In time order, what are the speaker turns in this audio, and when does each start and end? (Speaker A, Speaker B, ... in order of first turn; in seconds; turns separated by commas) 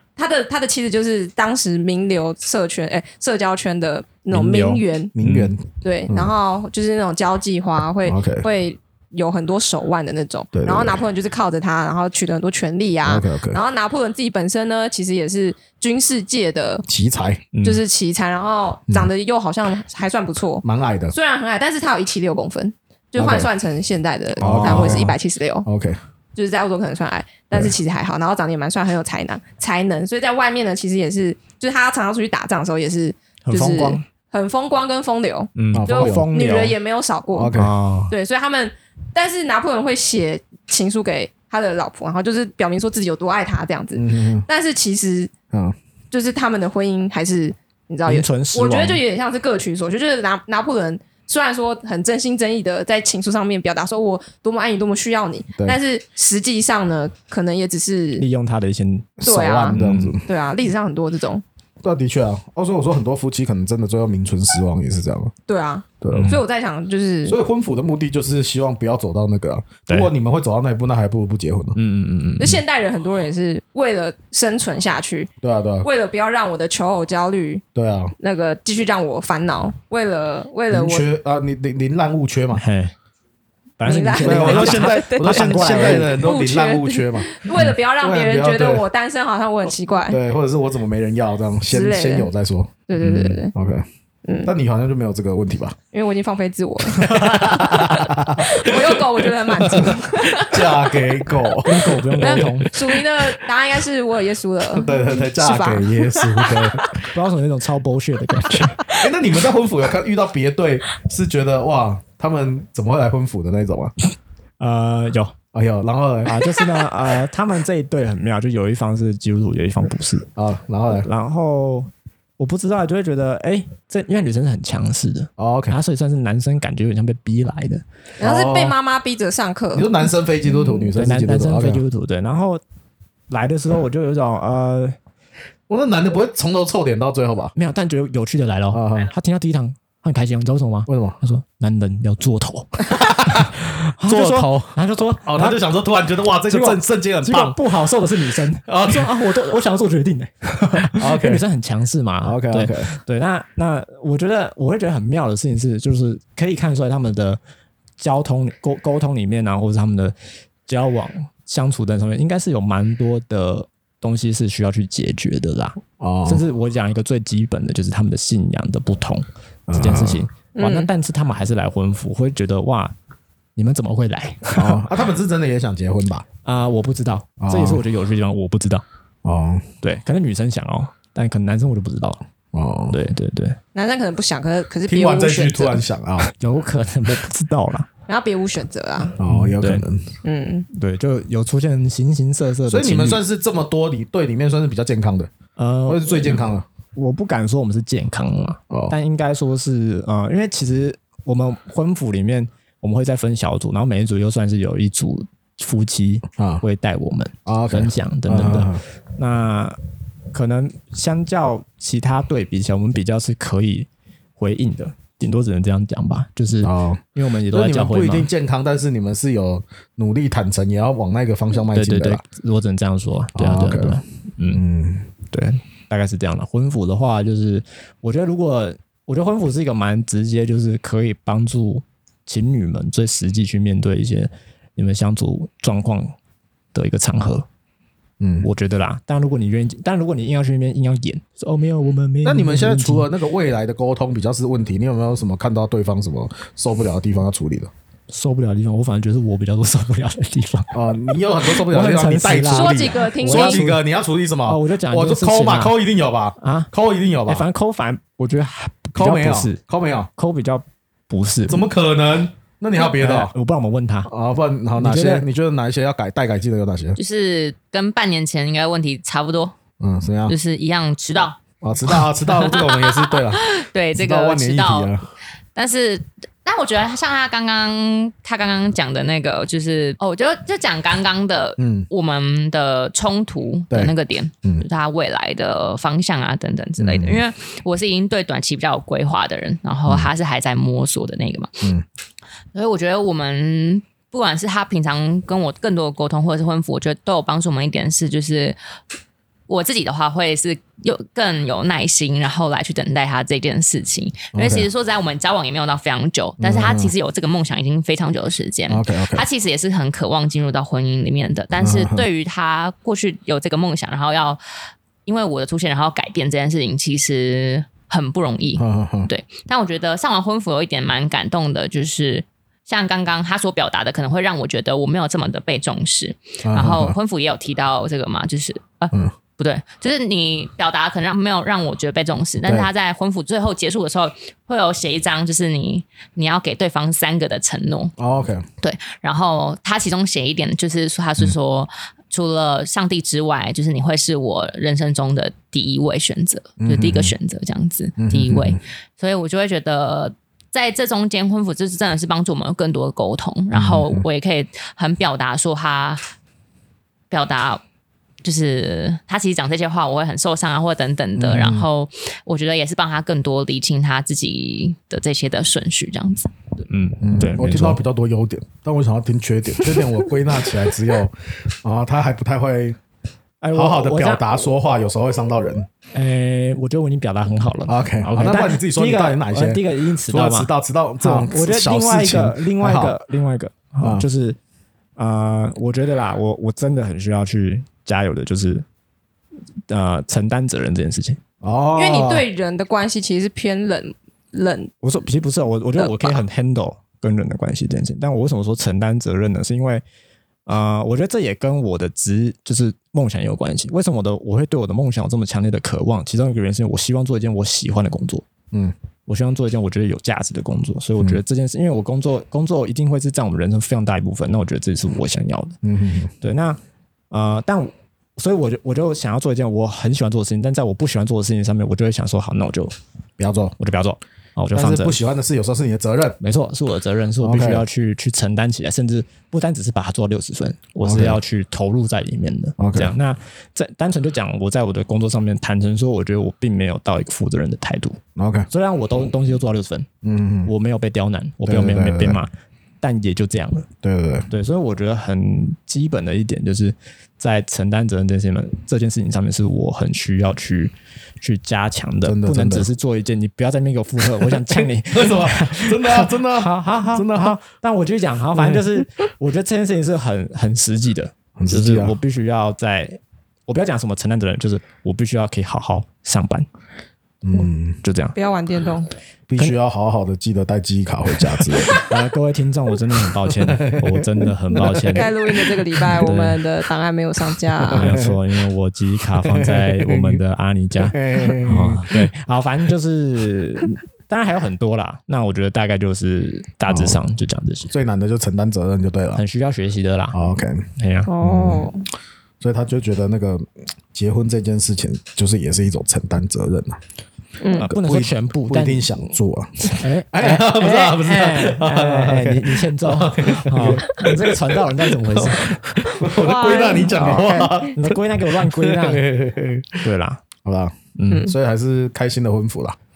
Speaker A: 0.1-5.1, Speaker B: 4.3-5.5, Speaker C: 5.2-6.3, Speaker A: 5.8-16.8, Speaker C: 8.1-8.4, Speaker C: 10.5-11.0, Speaker C: 13.0-13.6, Speaker C: 16.9-17.4, Speaker B: 17.5-17.8, Speaker A: 17.6-25.7, Speaker C: 20.6-21.1, Speaker C: 23.2-23.5, Speaker B: 24.4-25.1, Speaker C: 24.4-26.0, Speaker A: 26.3-37.5, Speaker B: 33.4-34.0, Speaker B: 35.5-36.8, Speaker C: 35.7-36.3, Speaker C: 37.3-37.7, Speaker B: 37.5-38.1, Speaker A: 38.1-45.3, Speaker C: 43.9-44.5, Speaker C: 45.5-45.8, Speaker A: 46.1-58.2, Speaker B: 48.0-49.0, Speaker B: 58.2-59.2, Speaker C: 59.2-60.2, Speaker A: 59.2-61.4, Speaker B: 59.7-60.2, Speaker C: 61.8-65.3, Speaker A: 65.5-67.4, Speaker C: 66.0-66.4, Speaker B: 66.1-66.4, Speaker C: 67.2-71.8, Speaker B: 71.7-72.6, Speaker A: 72.4-75.3, Speaker C: 75.4-75.9, Speaker A: 75.8-77.6, Speaker C: 77.7-78.1, Speaker A: 78.2-81.1, Speaker C: 80.7-82.6, Speaker B: 82.5-82.9, Speaker B: 83.8-86.3, Speaker A: 83.8-90.2, Speaker C: 84.2-87.4, Speaker C: 88.0-88.8, Speaker C: 90.1-92.7, Speaker A: 91.7-92.3, Speaker A: 92.9-93.5, Speaker B: 93.0-93.4, Speaker C: 93.5-93.8, Speaker A: 94.2-94.5, Speaker C: 94.4-95.8, Speaker A: 95.9-100.9, Speaker C: 96.9-102.6, Speaker B: 101.6-102.7, Speaker A: 102.2-106.6, Speaker C: 104.7-107.0, Speaker B: 107.1-108.8, Speaker C: 108.9-113.9, Speaker B: 114.6-115.3, Speaker C: 115.5-116.4, Speaker B: 116.2-120.3, Speaker C: 120.3-121.1, Speaker B: 120.9-127.8, Speaker C: 125.4-125.8, Speaker A: 128.2-130.1, Speaker C: 128.2-128.8, Speaker C: 129.7-131.8, Speaker B: 130.9-132.6, Speaker B: 133.3-134.9, Speaker C: 135.7-137.5, Speaker B: 137.5-145.6, Speaker C: 138.7-139.1, Speaker C: 140.9-141.2, Speaker C: 142.8-147.6, Speaker B: 146.5-157.4, Speaker C: 148.7-149.1, Speaker C: 150.9-151.4, Speaker C: 152.2-152.9, Speaker B: 158.0-160.1, Speaker B: 160.7-172.9, Speaker C: 166.0-166.4, Speaker C: 169.7-170.2, Speaker A: 170.5-170.9, Speaker B: 173.6-174.9, Speaker C: 174.5-176.2, Speaker B: 176.4-178.8, Speaker C: 177.4-177.8, Speaker C: 179.2-179.7, Speaker B: 179.8-182.2, Speaker C: 182.5-183.0, Speaker B: 182.9-183.6, Speaker A: 183.7-185.8, Speaker C: 184.9-186.3, Speaker B: 186.2-187.9, Speaker A: 188.1-189.2, Speaker C: 189.2-190.1, Speaker B: 189.2-189.8, Speaker A: 190.2-190.7, Speaker B: 190.7-193.2, Speaker C: 192.7-195.3, Speaker B: 195.6-209.8, Speaker C: 195.9-196.6, Speaker C: 206.4-206.6, Speaker C: 207.4-208.8, Speaker B: 210.3-218.3, Speaker C: 216.6-222.2, Speaker B: 221.7-224.6, Speaker C: 223.3-224.0, Speaker C: 224.5-225.1, Speaker B: 225.3-236.1, Speaker B: 236.7-237.4, Speaker C: 238.2-238.5, Speaker B: 238.4-243.1, Speaker C: 242.2-247.7, Speaker B: 248.1-250.8, Speaker C: 250.7-257.4, Speaker B: 251.4-253.8, Speaker A: 252.5-253.6, Speaker B: 254.4-255.8, Speaker B: 256.4-256.7, Speaker B: 257.3-259.6, Speaker C: 258.9-260.1, Speaker B: 260.1-261.7, Speaker C: 261.5-263.3, Speaker B: 262.8-264.1, Speaker C: 264.1-267.0, Speaker B: 264.8-265.2, Speaker D: 266.9-269.5, Speaker C: 269.8-270.3, Speaker D: 270.3-274.9, Speaker C: 271.6-275.0, Speaker D: 275.6-291.7, Speaker C: 281.6-281.9, Speaker C: 286.8-287.2, Speaker D: 292.5-298.6, Speaker D: 299.5-314.4, Speaker C: 304.3-304.7, Speaker C: 306.4-306.9, Speaker C: 308.7-309.2, Speaker C: 311.6-312.1, Speaker D: 315.1-337.9, Speaker C: 318.6-319.1, Speaker C: 326.4-326.9, Speaker C: 338.0-338.4, Speaker D: 338.6-356.0, Speaker C: 346.6-347.1, Speaker C: 348.0-348.6, Speaker C: 353.5-354.0, Speaker D: 357.1-357.6, Speaker D: 358.2-366.3, Speaker C: 361.1-361.6, Speaker B: 366.7-367.8, Speaker C: 367.0-372.8, Speaker B: 373.4-374.2, Speaker C: 373.5-375.7, Speaker B: 375.9-384.4, Speaker C: 377.7-382.9, Speaker B: 385.0-388.6, Speaker B: 389.7-391.2, Speaker C: 391.4-392.2, Speaker A: 391.7-394.7, Speaker B: 394.8-399.8, Speaker A: 395.8-396.2, Speaker B: 400.4-408.2, Speaker B: 409.1-415.6, Speaker C: 415.6-416.1, Speaker B: 416.2-416.6, Speaker B: 417.1-422.8, Speaker C: 423.2-423.5, Speaker B: 423.6-425.0, Speaker C: 424.5-426.2, Speaker B: 426.2-438.0, Speaker C: 427.2-427.6, Speaker C: 430.8-431.2, Speaker C: 432.6-432.9, Speaker C: 438.1-438.5, Speaker B: 438.5-439.9, Speaker C: 440.0-440.5, Speaker B: 440.4-443.7, Speaker C: 441.4-442.2, Speaker C: 443.8-444.3, Speaker B: 444.3-466.5, Speaker C: 452.0-452.7, Speaker C: 454.4-457.4, Speaker C: 458.4-458.8, Speaker C: 461.4-461.9, Speaker C: 467.2-467.8, Speaker B: 467.8-468.1, Speaker A: 468.1-468.9, Speaker C: 469.3-472.0, Speaker B: 471.3-475.1, Speaker C: 473.3-475.4, Speaker A: 474.9-477.9, Speaker B: 475.9-476.4, Speaker C: 477.6-478.2, Speaker B: 477.7-487.7, Speaker C: 479.3-480.2, Speaker C: 480.8-482.0, Speaker C: 486.7-487.0, Speaker C: 487.7-489.2, Speaker B: 489.1-490.2, Speaker C: 490.1-490.7, Speaker B: 490.8-491.1, Speaker A: 491.1-491.8, Speaker C: 491.2-491.7, Speaker C: 492.4-496.8, Speaker A: 497.4-497.7, Speaker B: 497.5-499.1, Speaker C: 497.6-509.9, Speaker B: 499.6-509.0, Speaker A: 506.2-507.6, Speaker B: 509.8-510.2, Speaker C: 510.4-512.8, Speaker B: 511.0-511.3, Speaker A: 511.1-511.3